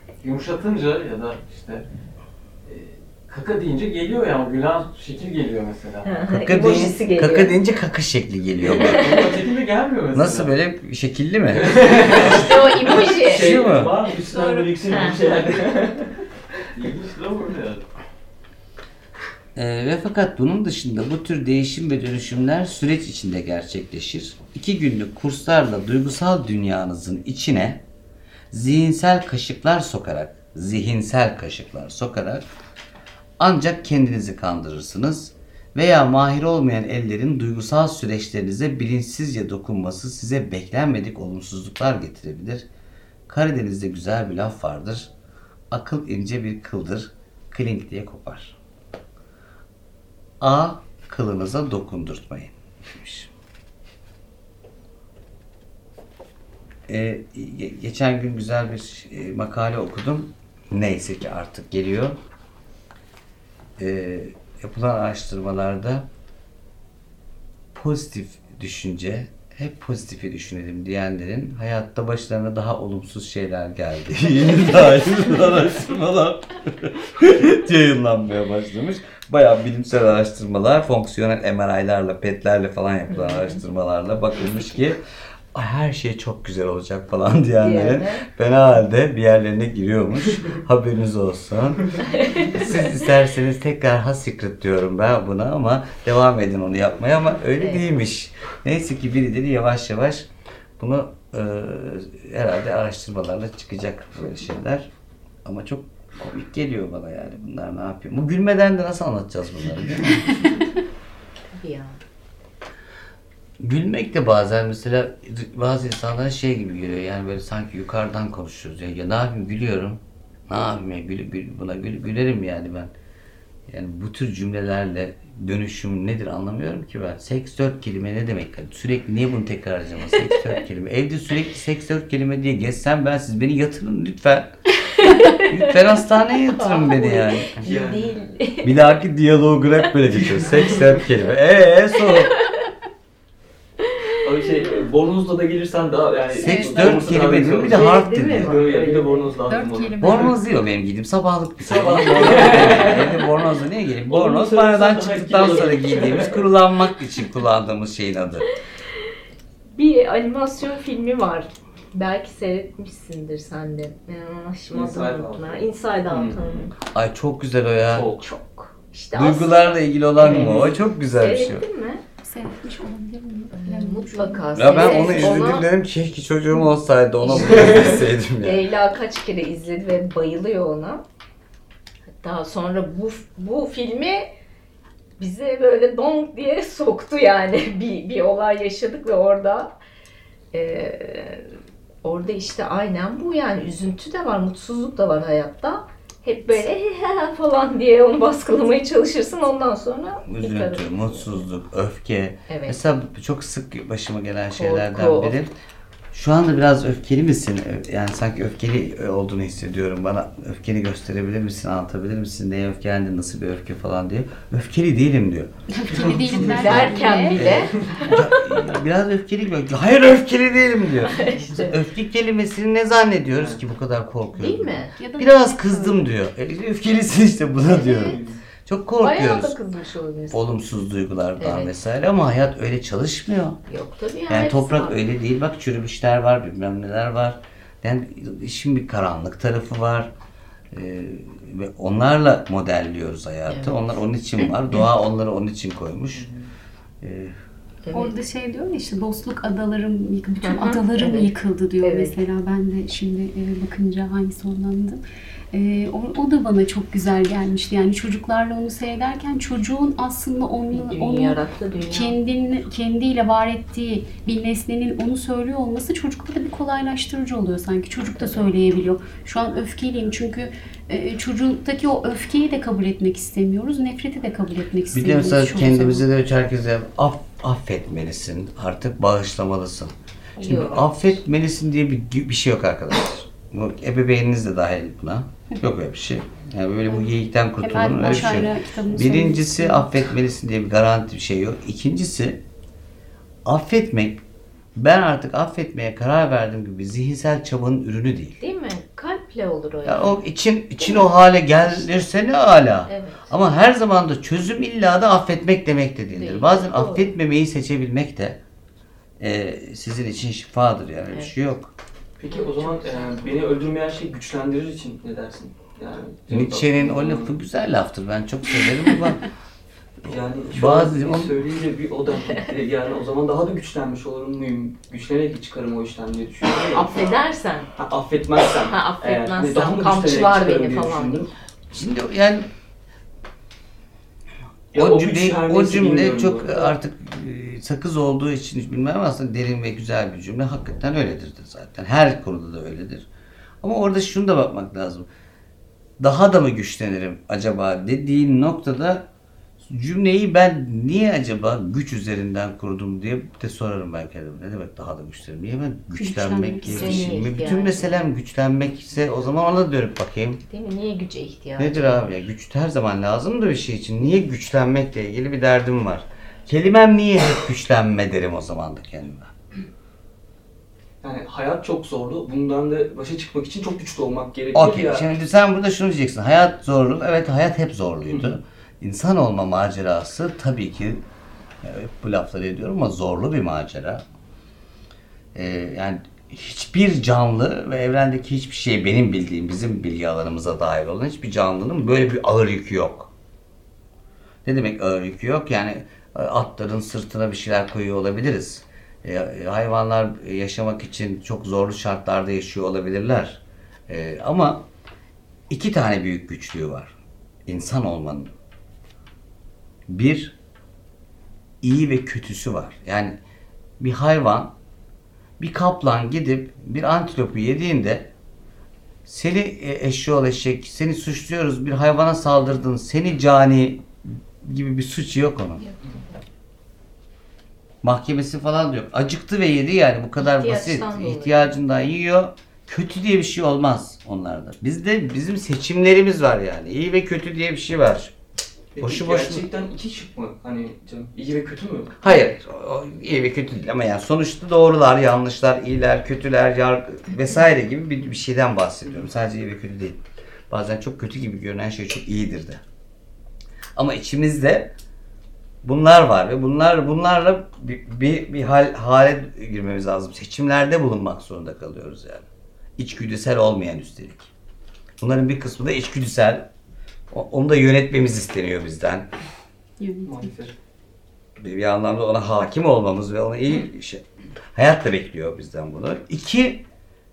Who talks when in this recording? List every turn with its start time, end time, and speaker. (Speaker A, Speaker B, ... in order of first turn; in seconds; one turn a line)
Speaker A: 0.2-1.9
Speaker A: 2.6-6.2
Speaker B: 6.0-7.5
Speaker C: 6.3-9.1
Speaker A: 8.6-10.5
Speaker B: 8.9-9.3
Speaker C: 10.1-11.8
Speaker D: 11.5-16.1
Speaker B: 12.2-13.6
Speaker C: 13.4-13.9
Speaker B: 14.3-15.3
Speaker A: 16.7-17.9
Speaker C: 19.6-27.8
Speaker C: 28.5-32.5
Speaker C: 33.4-42.7
Speaker C: 43.3-45.1
Speaker C: 45.7-48.6
Speaker C: 50.4-53.3
Speaker C: 56.9-62.2
Speaker C: 63.8-66.1
Speaker C: 67.8-85.0
Speaker C: 85.5-100.3
Speaker B: 87.6-88.2
Speaker B: 92.1-92.4
Speaker C: 100.8-104.9
Speaker C: 105.4-110.2
Speaker B: 111.5-112.0
Speaker C: 113.6-122.9
Speaker C: 123.7-134.6
Speaker B: 135.0-135.8
Speaker C: 135.4-137.6
Speaker B: 136.6-139.0
Speaker D: 137.6-138.1
Speaker C: 138.6-142.4
Speaker D: 144.2-150.4
Speaker E: 146.4-147.0
Speaker C: 146.4-148.5
Speaker B: 147.6-149.4
Speaker E: 149.4-150.4
Speaker C: 150.0-158.5
Speaker D: 151.6-153.3
Speaker D: 154.1-156.5
Speaker B: 159.7-166.7
Speaker D: 164.7-166.7
Speaker C: 166.9-168.1
Speaker D: 167.9-168.3
Speaker B: 168.2-170.6
Speaker C: 169.1-171.6
Speaker D: 170.2-170.8
Speaker B: 171.2-172.0
Speaker E: 172.2-175.5
Speaker B: 173.5-175.7
Speaker C: 174.5-178.7
Speaker B: 177.2-181.0
Speaker D: 177.4-177.9
Speaker B: 182.2-184.3
Speaker B: 185.2-189.8
Speaker B: 190.5-201.4
Speaker C: 200.2-205.5
Speaker B: 202.5-202.8
Speaker B: 204.6-205.3
Speaker C: 206.1-215.5
Speaker E: 215.7-217.4
Speaker D: 215.9-216.7
Speaker C: 216.4-216.8
Speaker B: 216.5-218.0
Speaker C: 217.3-229.6
Speaker D: 217.5-218.0
Speaker B: 221.1-221.8
Speaker D: 223.3-223.6
Speaker B: 224.4-225.0
Speaker E: 225.0-226.2
Speaker B: 227.7-228.2
Speaker D: 228.1-228.4
Speaker B: 229.0-230.4
Speaker C: 230.3-233.6
Speaker B: 231.4-231.8
Speaker B: 233.7-235.0
Speaker C: 234.3-240.1
Speaker C: 240.7-246.3
Speaker B: 243.5-244.9
Speaker D: 246.1-246.5
Speaker C: 247.0-247.3
Speaker B: 247.8-248.2
Speaker E: 247.9-255.0
Speaker B: 250.4-252.2
Speaker E: 255.5-276.1
Speaker B: 260.7-262.1
Speaker B: 268.2-268.5
Speaker C: 274.9-292.4
Speaker B: 280.4-281.1
Speaker E: 287.6-289.9
Speaker C: 293.4-294.2
Speaker C: 294.8-298.4
Speaker B: 298.4-300.2
Speaker C: 299.8-308.4
Speaker B: 300.8-302.1
Speaker B: 302.9-303.4
Speaker B: 306.2-307.1
Speaker C: 309.2-311.7
Speaker D: 312.2-317.3
Speaker B: 312.3-313.4
Speaker C: 316.3-319.3
Speaker D: 320.0-327.2
Speaker C: 320.1-321.4
Speaker B: 326.7-327.7
Speaker D: 327.8-331.3
Speaker B: 328.5-331.3
Speaker C: 331.7-332.5
Speaker D: 334.7-336.8
Speaker C: 334.7-343.1
Speaker C: 343.6-345.1
Speaker C: 346.0-349.1
Speaker C: 349.6-360.4
Speaker E: 356.0-357.1
Speaker B: 356.6-358.1
Speaker B: 360.5-362.1
Speaker C: 361.6-369.3
Speaker D: 371.0-375.1
Speaker C: 374.5-381.0
Speaker D: 378.1-378.4
Speaker C: 381.6-384.0
Speaker C: 385.3-393.1
Speaker C: 394.4-404.7
Speaker C: 405.5-406.9
Speaker C: 407.5-408.3
Speaker C: 409.9-410.4
Speaker C: 411.6-413.2
Speaker C: 413.8-414.5
Speaker C: 415.4-418.1
Speaker C: 419.1-423.9
Speaker C: 424.4-425.6
Speaker B: 425.6-426.1
Speaker C: 427.8-438.1
Speaker B: 430.2-431.6
Speaker D: 438.8-442.0
Speaker C: 438.8-439.5
Speaker C: 442.0-452.6
Speaker D: 448.8-449.1
Speaker C: 453.8-454.8
Speaker C: 455.6-462.3
Speaker C: 462.8-464.3
Speaker C: 465.0-466.5
Speaker C: 467.1-469.1
Speaker E: 469.8-470.3
Speaker D: 470.1-470.5
Speaker C: 471.4-474.0
Speaker C: 474.6-476.6